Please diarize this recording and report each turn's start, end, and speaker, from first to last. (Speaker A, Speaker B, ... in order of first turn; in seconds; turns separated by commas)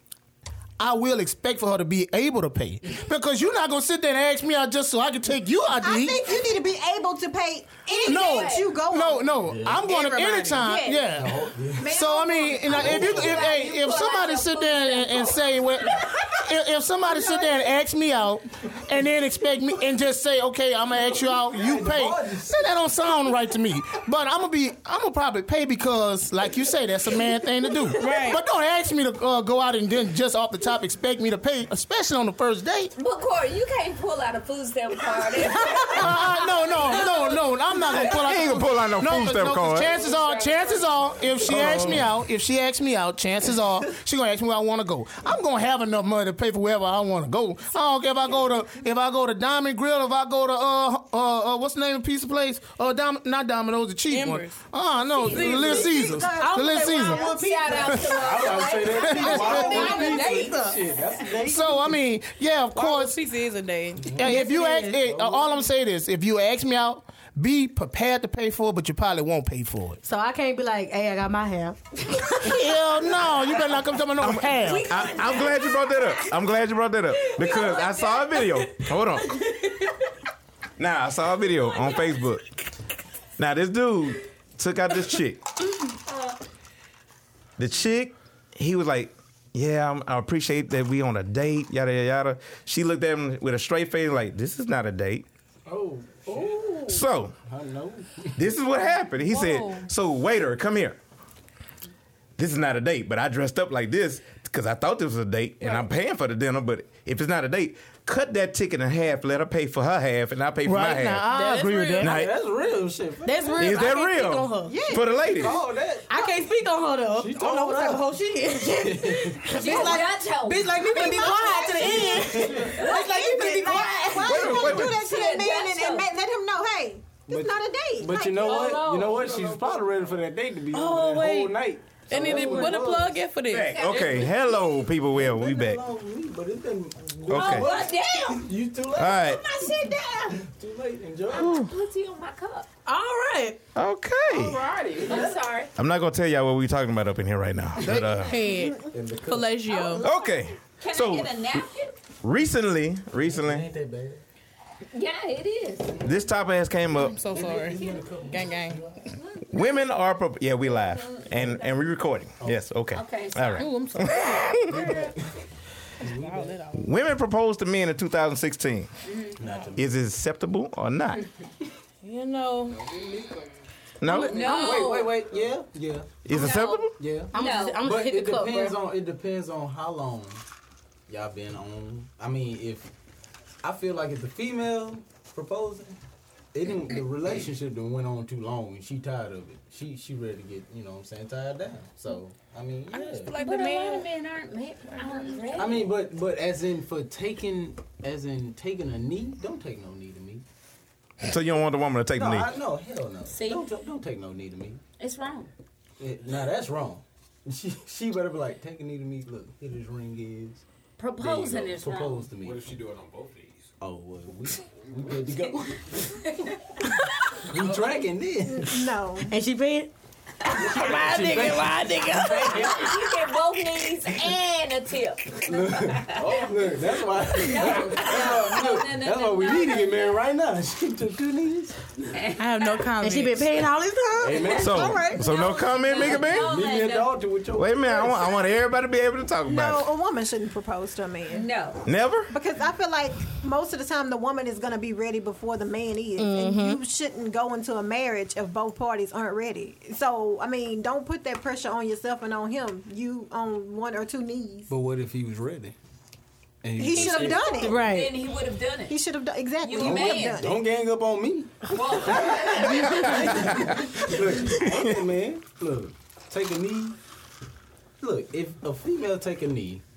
Speaker A: 0.8-6.4, Speaker B: 5.8-9.3, Speaker C: 7.9-8.7, Speaker A: 8.0-32.9, Speaker D: 9.5-11.9, Speaker C: 10.6-11.2, Speaker B: 11.8-13.5, Speaker C: 12.0-16.1, Speaker D: 12.7-13.4, Speaker D: 17.1-17.5, Speaker D: 21.5-22.7, Speaker E: 28.0-28.4, Speaker F: 28.0-28.4, Speaker C: 33.0-37.4, Speaker A: 35.9-58.2, Speaker G: 38.1-39.9, Speaker C: 39.8-41.4, Speaker G: 41.5-42.1, Speaker D: 41.6-41.9, Speaker E: 54.1-54.6, Speaker B: 55.3-58.2, Speaker E: 55.3-55.8, Speaker D: 55.3-56.5, Speaker F: 56.4-57.1, Speaker C: 57.1-60.0, Speaker D: 57.8-61.9, Speaker A: 59.0-60.0, Speaker F: 59.3-60.8, Speaker E: 59.6-60.7, Speaker A: 61.5-63.2, Speaker E: 62.7-64.4, Speaker D: 64.1-65.5, Speaker A: 64.2-70.0, Speaker F: 64.4-64.9, Speaker F: 70.0-72.7, Speaker A: 72.4-74.9, Speaker G: 74.2-79.4, Speaker C: 74.6-75.8, Speaker C: 77.4-78.2, Speaker G: 80.8-82.4, Speaker G: 83.4-85.4, Speaker G: 87.6-95.2, Speaker D: 95.7-98.5, Speaker G: 96.8-97.3, Speaker G: 98.4-101.0, Speaker E: 99.3-99.9, Speaker G: 102.4-111.3, Speaker A: 110.6-112.2, Speaker E: 111.3-112.1, Speaker G: 112.0-112.3, Speaker D: 112.0-113.9, Speaker F: 113.2-114.8, Speaker G: 113.5-115.6, Speaker B: 114.6-115.6, Speaker D: 115.1-116.1, Speaker F: 116.1-124.7, Speaker D: 117.1-118.1, Speaker D: 118.8-120.0, Speaker C: 119.5-121.3, Speaker B: 120.8-128.7, Speaker D: 121.8-122.8, Speaker C: 122.8-123.0, Speaker C: 123.7-124.0, Speaker G: 124.2-125.0, Speaker C: 124.7-126.1, Speaker D: 127.3-133.2, Speaker C: 128.1-129.3, Speaker H: 128.6-129.9, Speaker F: 130.7-131.6, Speaker E: 132.1-133.8, Speaker F: 132.3-132.7, Speaker G: 133.5-135.8, Speaker C: 133.7-134.8, Speaker H: 133.8-134.5, Speaker D: 135.0-139.4, Speaker G: 137.3-137.8, Speaker C: 137.3-138.5, Speaker G: 138.9-139.4, Speaker C: 139.1-140.4, Speaker D: 140.4-141.6, Speaker C: 141.3-142.7, Speaker F: 142.9-143.6, Speaker G: 143.8-144.6, Speaker H: 144.3-145.3, Speaker C: 145.1-145.7, Speaker G: 145.8-148.4, Speaker A: 147.8-148.2, Speaker E: 148.2-150.1, Speaker D: 148.9-149.6, Speaker C: 149.7-151.9, Speaker G: 150.0-151.6, Speaker G: 152.2-153.7, Speaker D: 153.2-154.2, Speaker C: 154.9-155.9, Speaker G: 156.0-157.3, Speaker E: 157.0-158.8, Speaker D: 157.2-159.1, Speaker G: 159.5-164.7, Speaker C: 160.7-161.6, Speaker C: 162.9-163.7, Speaker E: 163.6-165.1, Speaker D: 164.7-165.3, Speaker D: 166.0-166.6, Speaker E: 166.0-166.9, Speaker G: 166.7-168.9, Speaker C: 169.1-169.4, Speaker D: 169.4-169.9, Speaker G: 169.8-171.2, Speaker E: 172.0-172.8, Speaker H: 172.7-173.5, Speaker G: 174.0-174.4, Speaker F: 174.0-175.1, Speaker C: 174.3-175.1, Speaker D: 174.4-176.3, Speaker G: 176.2-177.0, Speaker C: 176.3-177.8, Speaker D: 177.0-180.4, Speaker F: 177.3-178.8, Speaker D: 181.1-182.9, Speaker D: 183.6-186.0, Speaker D: 186.5-193.3, Speaker E: 192.9-194.1, Speaker C: 193.4-195.9, Speaker D: 195.5-200.4, Speaker G: 201.2-202.5, Speaker D: 202.1-204.8, Speaker C: 203.3-203.7, Speaker C: 205.0-205.5, Speaker D: 206.0-210.6, Speaker C: 211.0-212.3, Speaker D: 211.2-212.7, Speaker H: 212.4-213.7, Speaker D: 213.8-216.3, Speaker C: 216.1-216.5, Speaker D: 217.4-218.9, Speaker H: 217.6-217.9, Speaker B: 218.5-219.3, Speaker F: 219.2-219.9, Speaker D: 220.5-222.9, Speaker F: 220.5-222.8, Speaker E: 220.8-222.6, Speaker C: 222.6-226.5, Speaker D: 225.5-231.8, Speaker H: 226.4-226.8, Speaker C: 227.3-230.1, Speaker H: 227.7-228.0, Speaker C: 232.1-232.9, Speaker E: 232.4-233.6, Speaker F: 233.0-235.2, Speaker D: 234.2-235.0, Speaker C: 234.3-237.2, Speaker G: 234.6-236.6, Speaker D: 236.0-238.3, Speaker G: 237.6-239.9, Speaker B: 239.4-241.5, Speaker C: 241.3-241.8, Speaker G: 241.8-242.3, Speaker B: 242.3-254.7, Speaker F: 246.2-246.8, Speaker D: 254.7-255.8, Speaker D: 256.6-257.7, Speaker B: 256.8-257.9, Speaker C: 256.9-259.0, Speaker F: 257.6-258.2, Speaker B: 258.9-260.6, Speaker C: 259.6-260.4, Speaker D: 259.7-267.0, Speaker C: 261.7-263.5, Speaker G: 262.8-263.9, Speaker G: 264.6-265.0, Speaker D: 268.0-269.8